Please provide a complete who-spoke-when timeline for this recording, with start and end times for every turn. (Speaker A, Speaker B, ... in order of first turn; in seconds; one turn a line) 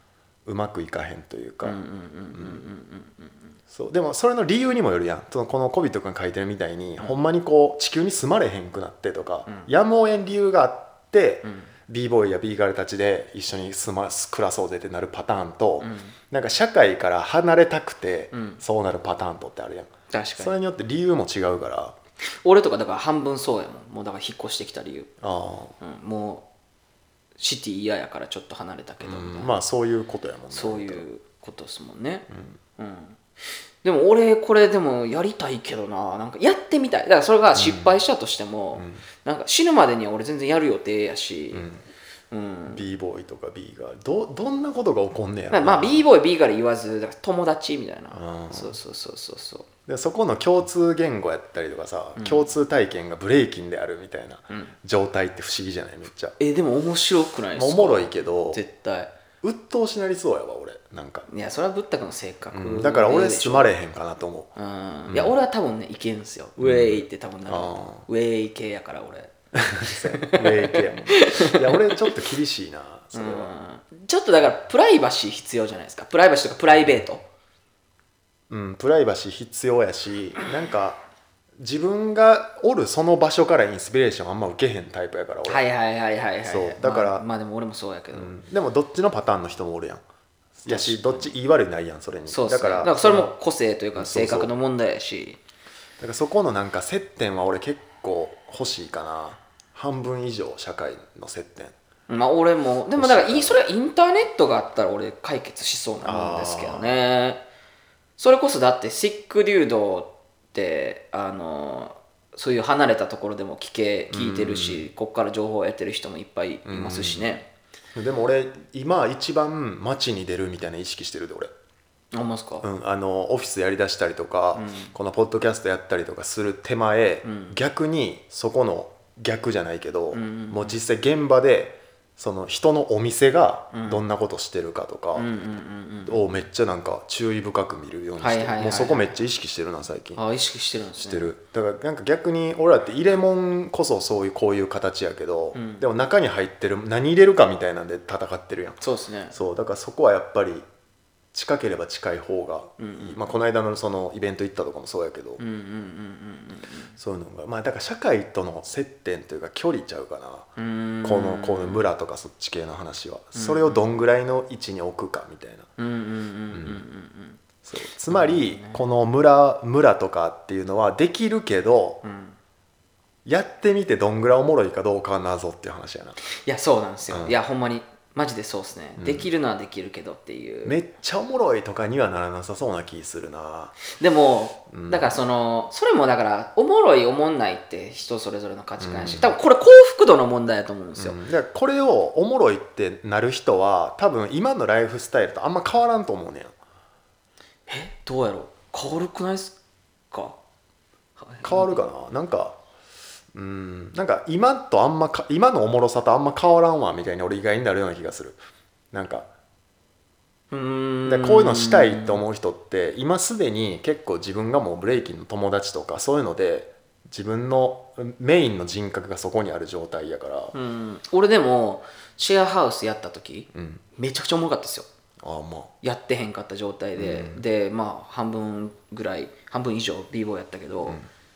Speaker A: 0.5-1.8
Speaker B: 1.6-3.5
Speaker A: 2.3-2.7
Speaker A: 3.7-21.9
Speaker B: 11.4-11.7
Speaker B: 15.8-16.1
Speaker B: 18.3-18.6
Speaker B: 20.1-20.6
Speaker B: 22.4-25.1
Speaker A: 25.2-25.8
Speaker B: 25.8-26.4
Speaker B: 27.4-29.5
Speaker A: 29.0-31.1
Speaker B: 30.5-32.3
Speaker A: 32.3-32.6
Speaker B: 32.8-33.2
Speaker B: 33.8-41.7
Speaker A: 37.5-37.9
Speaker A: 38.8-39.0
Speaker A: 41.5-41.8
Speaker B: 42.3-42.8
Speaker A: 42.7-46.0
Speaker B: 45.5-49.7
Speaker A: 48.1-48.8
Speaker A: 49.9-56.4
Speaker B: 52.1-52.5
Speaker B: 56.4-59.1
Speaker A: 57.5-58.6
Speaker A: 59.4-61.3
Speaker B: 61.3-63.7
Speaker A: 62.5-64.5
Speaker B: 64.5-72.0
Speaker A: 65.1-65.3
Speaker A: 66.6-68.0
Speaker A: 69.5-73.5
Speaker B: 73.1-77.2
Speaker A: 78.5-81.0
Speaker A: 81.6-85.6
Speaker B: 85.5-88.3
Speaker A: 86.4-87.2
Speaker A: 88.1-90.0
Speaker A: 90.6-93.3
Speaker B: 90.7-91.3
Speaker B: 92.3-95.4
Speaker A: 93.9-94.5
Speaker A: 96.0-101.7
Speaker B: 102.1-107.4
Speaker A: 102.9-103.6
Speaker A: 106.0-107.0
Speaker B: 108.2-117.5
Speaker A: 114.1-114.8
Speaker A: 116.7-117.3
Speaker A: 117.9-121.5
Speaker B: 122.1-122.7
Speaker A: 122.6-135.3
Speaker B: 124.5-124.9
Speaker B: 127.2-127.6
Speaker B: 130.1-130.8
Speaker B: 133.7-134.0
Speaker B: 135.1-136.2
Speaker A: 136.1-140.2
Speaker B: 138.2-139.2
Speaker B: 140.2-141.3
Speaker A: 141.0-148.8
Speaker B: 145.5-145.8
Speaker B: 148.8-149.3
Speaker A: 149.3-150.7
Speaker A: 151.3-155.4
Speaker B: 152.8-153.3
Speaker B: 155.4-156.9
Speaker A: 157.0-160.5
Speaker B: 160.6-161.8
Speaker A: 161.0-165.7
Speaker B: 163.3-164.0
Speaker B: 165.8-167.4
Speaker A: 166.5-166.8
Speaker A: 167.6-172.0
Speaker B: 168.1-168.9
Speaker B: 172.0-172.4
Speaker A: 173.2-176.2
Speaker B: 176.3-180.8
Speaker A: 177.1-177.4
Speaker A: 179.0-179.3
Speaker A: 180.6-183.8
Speaker B: 183.9-191.2
Speaker A: 184.7-185.1
Speaker A: 188.8-189.3
Speaker A: 191.0-196.5
Speaker B: 197.7-199.5
Speaker B: 200.1-200.4
Speaker B: 201.2-201.8
Speaker A: 201.4-202.6
Speaker A: 203.3-208.4
Speaker A: 208.9-209.3
Speaker B: 210.5-212.2
Speaker A: 211.1-220.5
Speaker B: 220.5-224.9
Speaker A: 223.5-223.8
Speaker A: 225.2-225.7
Speaker B: 225.8-231.0
Speaker A: 226.9-227.4